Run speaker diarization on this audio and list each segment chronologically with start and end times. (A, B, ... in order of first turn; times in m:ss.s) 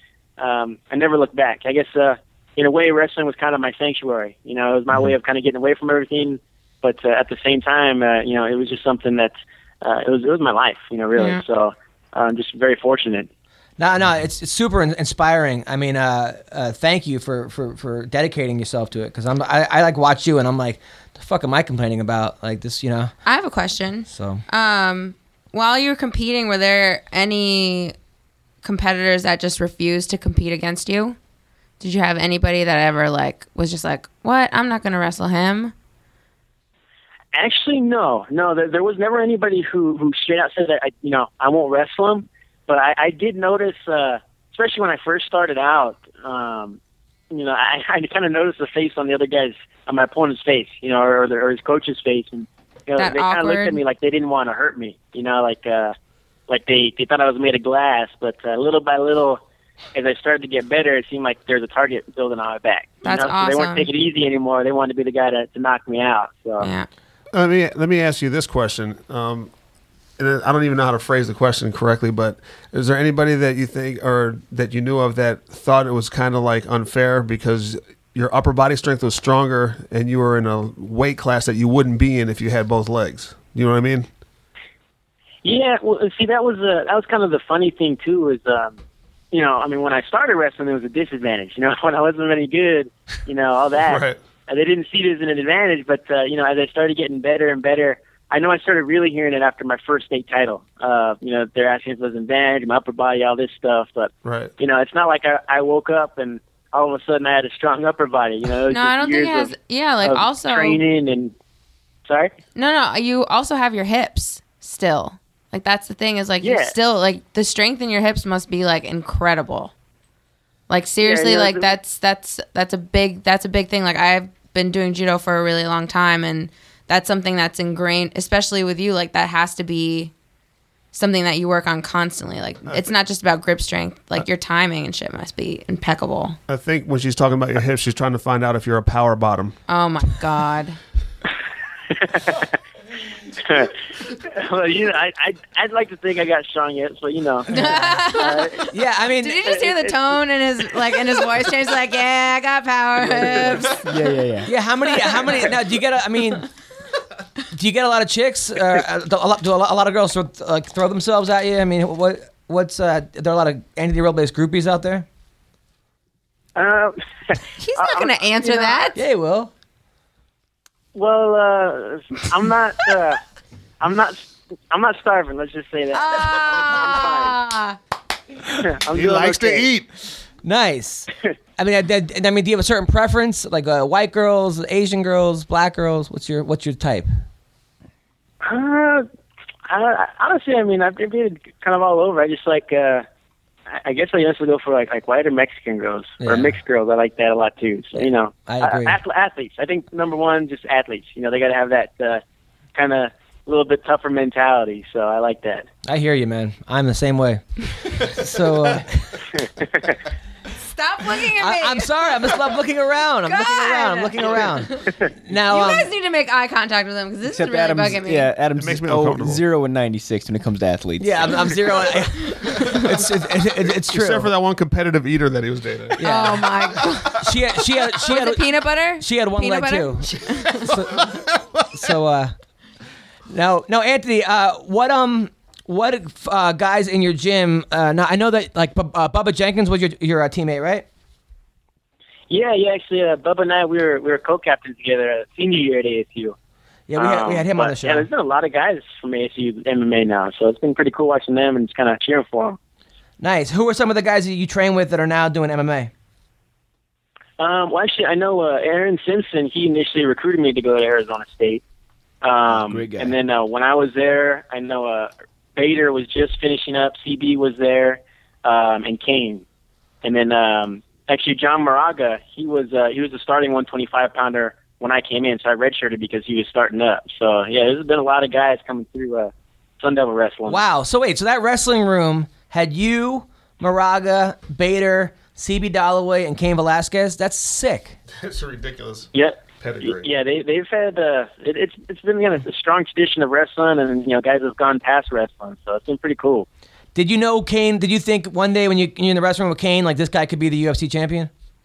0:00.4-0:13.3 A
0:11.2-0:11.4 B
0:13.8-0:23.1 C
0:23.2-0:27.9 B
0:24.1-0:24.4 C
0:28.6-0:31.2 B
0:31.8-0:35.7 B
0:37.3-0:46.8 A
0:47.3-0:56.0 A
0:53.0-0:53.8 B
0:56.5-0:59.4 A
1:00.0-1:06.7 A
1:03.0-1:03.9 B
1:06.6-1:06.9 B
1:07.3-1:09.5 D
1:10.2-1:24.1 D
1:25.4-1:28.8 A
1:29.3-1:51.3 A
1:33.8-1:34.2 D
1:44.2-1:44.5 D
1:48.7-1:50.8 B
1:52.1-1:52.3 A
1:52.6-1:59.7 B
1:56.4-1:56.8 A
2:00.7-2:10.1 B
2:01.0-2:01.7 A
2:10.9-2:16.4 B
2:16.5-2:19.6 D
2:19.7-2:20.8 B
2:21.9-2:22.6 A
2:23.4-2:27.6 A
2:27.5-2:34.1 B
2:28.1-2:28.7 A
2:28.7-2:29.4 C
2:29.4-2:30.0 A
2:33.1-2:33.5 A
2:33.7-2:34.5 E
2:34.5-2:36.5 C
2:34.9-2:35.5 B
2:37.5-2:45.1 C
2:46.6-2:48.8 A
2:47.6-2:49.0 B
2:49.0-2:49.5 C
2:51.0-2:53.2 A
2:53.8-2:57.4 A
2:55.9-2:57.8 B
2:58.6-2:59.7 A
2:58.9-2:59.9 D
3:00.4-3:07.1 C
3:08.4-3:09.1 A
3:09.7-3:13.0 A
3:13.7-3:22.2 A
3:16.2-3:16.6 C
3:18.0-3:19.0 C
3:22.8-3:25.7 A
3:25.9-3:29.3 C
3:29.4-3:30.0 A
3:30.6-3:32.4 B
3:31.4-3:35.9 C
3:33.3-3:38.3 B
3:37.3-3:41.6 E
3:38.6-3:39.4 D
3:41.0-3:44.3 C
3:42.2-3:42.7 B
3:43.9-3:46.0 D
3:46.0-3:46.5 C
3:46.0-3:47.3 B
3:47.1-3:52.3 C
3:48.0-3:51.0 B
3:53.3-4:00.8 C
4:02.3-4:06.4 A
4:06.9-4:08.1 C
4:07.0-4:12.6 A
4:13.2-4:15.9 C
4:17.4-4:21.6 A
4:22.2-4:29.4 A
4:22.5-4:23.2 E
4:30.0-4:40.6 A
4:40.5-4:48.0 C
4:48.2-4:50.1 D
4:49.1-4:56.5 A
4:57.0-5:01.3 C